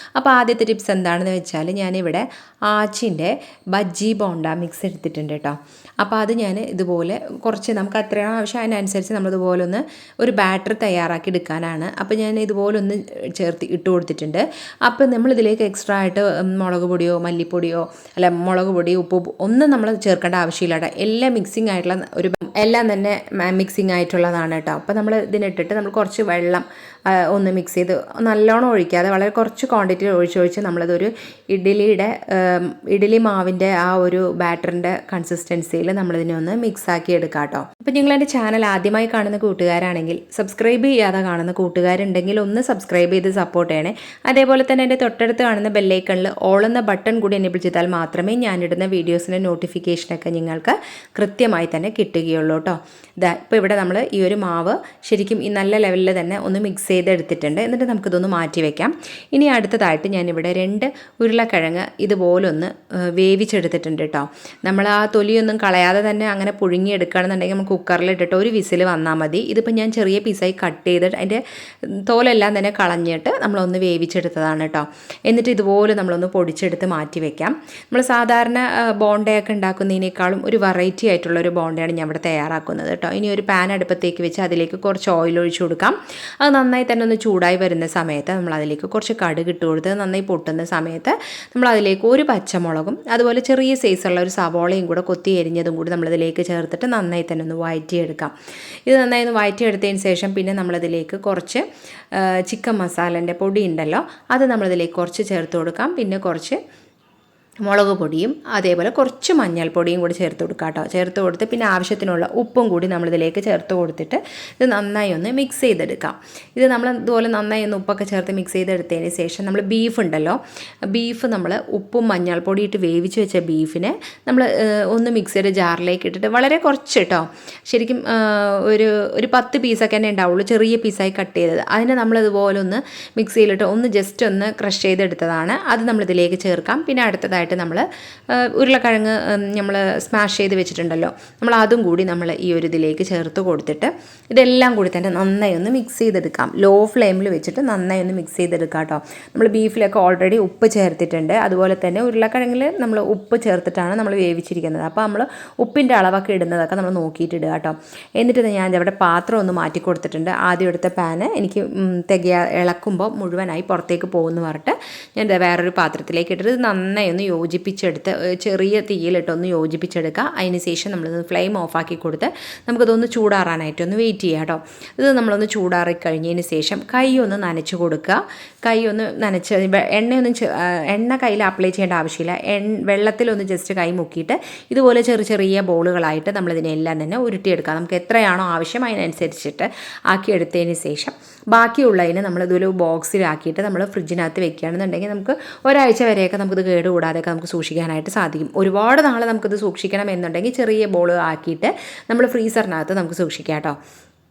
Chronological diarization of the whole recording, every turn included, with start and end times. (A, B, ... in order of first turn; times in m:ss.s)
0:00.2-1:38.3 A
1:38.9-1:46.6 A
1:47.6-3:23.8 A